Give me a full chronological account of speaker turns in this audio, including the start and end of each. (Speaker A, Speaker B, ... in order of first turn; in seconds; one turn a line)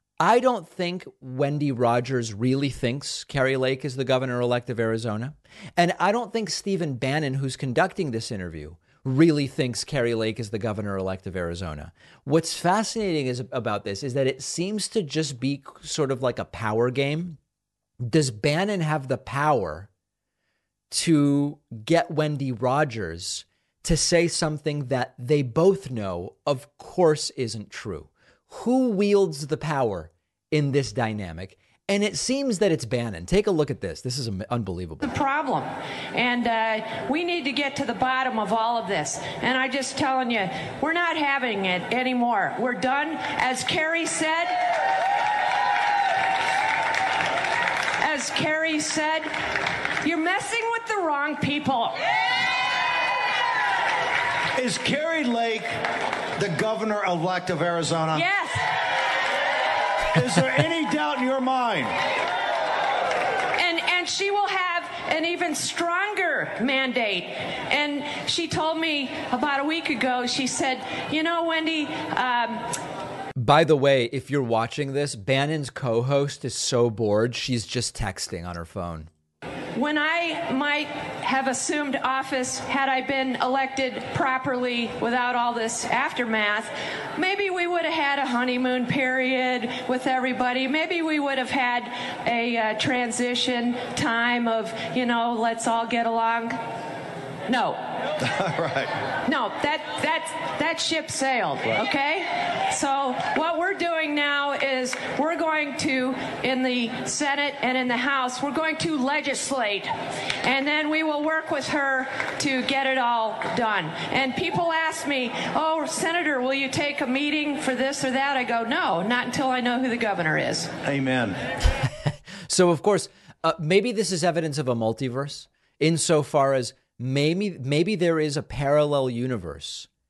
Speaker A: 0.2-17.4
Speaker A: 18.0-19.9
Speaker A: 20.9-35.1
Speaker B: 35.0-44.5
Speaker B: 48.0-49.3
Speaker B: 50.0-52.0
Speaker C: 54.5-55.7
Speaker C: 56.4-58.2
Speaker B: 58.1-58.7
Speaker C: 60.1-62.0
Speaker B: 63.6-72.7
Speaker A: 73.4-79.1
Speaker B: 79.8-96.6
Speaker B: 97.5-97.8
Speaker C: 98.2-98.9
Speaker B: 99.3-109.9
Speaker B: 110.4-120.7
Speaker C: 120.8-121.4
Speaker A: 122.5-129.9